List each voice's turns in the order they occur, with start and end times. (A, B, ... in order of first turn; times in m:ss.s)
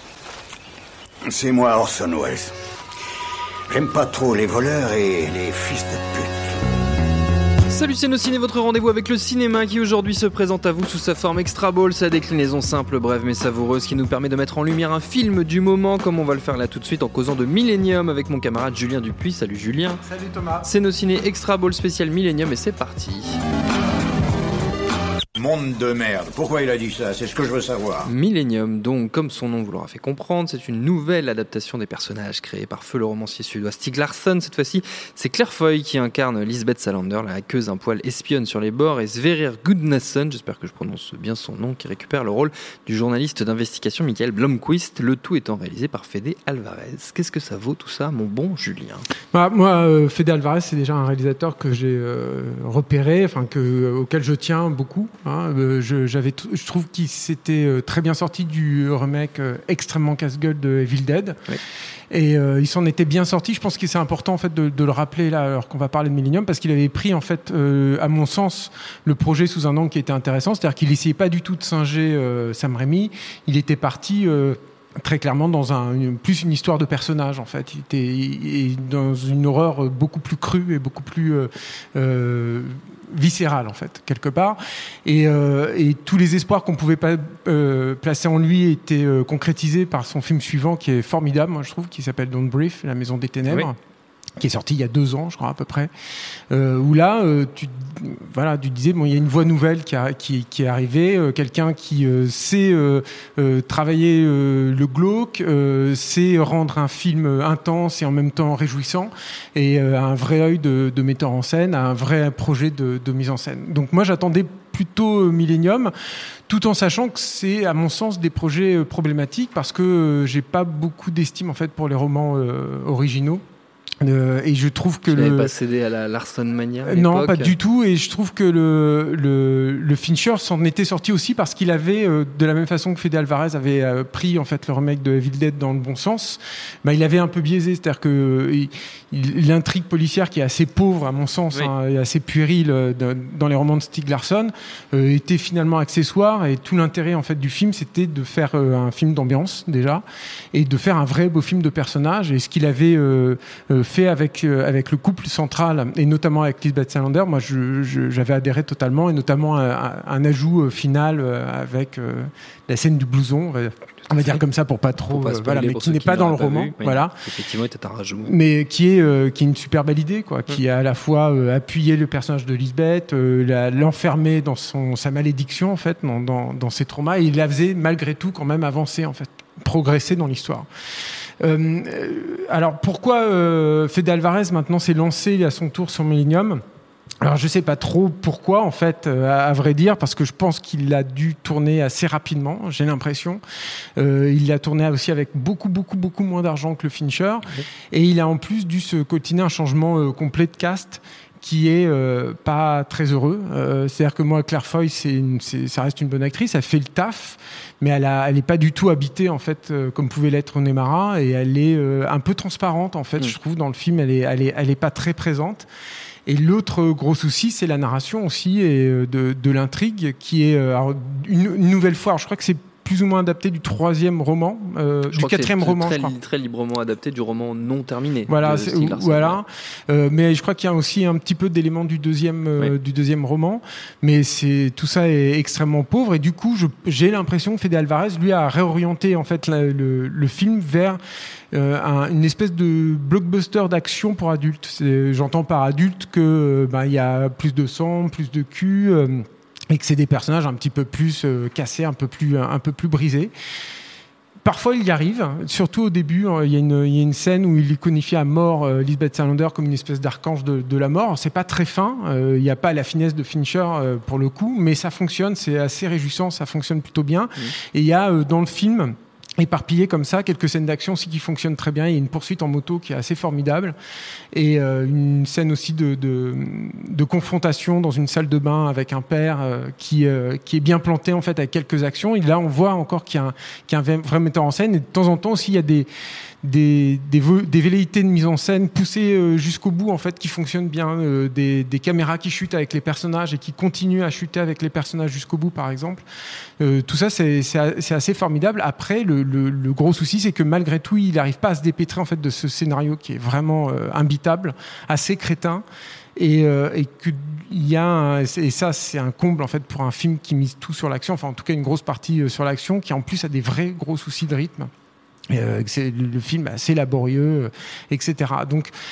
0:01.3-0:02.5 A
0:03.7-0:06.5 A
0:07.7-0:20.0 B
0:20.0-0:20.7 C
0:20.6-0:23.4 B
0:25.4-0:28.1 A
0:28.0-0:49.1 B
0:49.3-1:01.5 C
1:02.1-1:33.8 C
1:34.4-1:35.9 C
1:36.5-1:55.9 C
1:56.5-2:03.4 C
2:04.0-2:05.5 C
2:05.1-2:07.6 B
2:06.8-2:47.2 C
2:44.1-2:44.4 B
2:45.1-2:48.3 B
2:48.2-3:00.7 C
3:01.4-3:06.6 C
3:07.2-3:13.4 C
3:14.0-3:35.7 C
3:36.3-3:46.2 C
3:45.1-3:49.4 B
3:48.3-4:01.0 C
4:01.5-4:13.3 C
4:14.4-4:33.8 C
4:34.3-4:45.9 C
4:46.4-4:56.0 C
4:56.6-5:05.6 C
5:06.2-5:14.7 C
5:15.3-5:18.7 C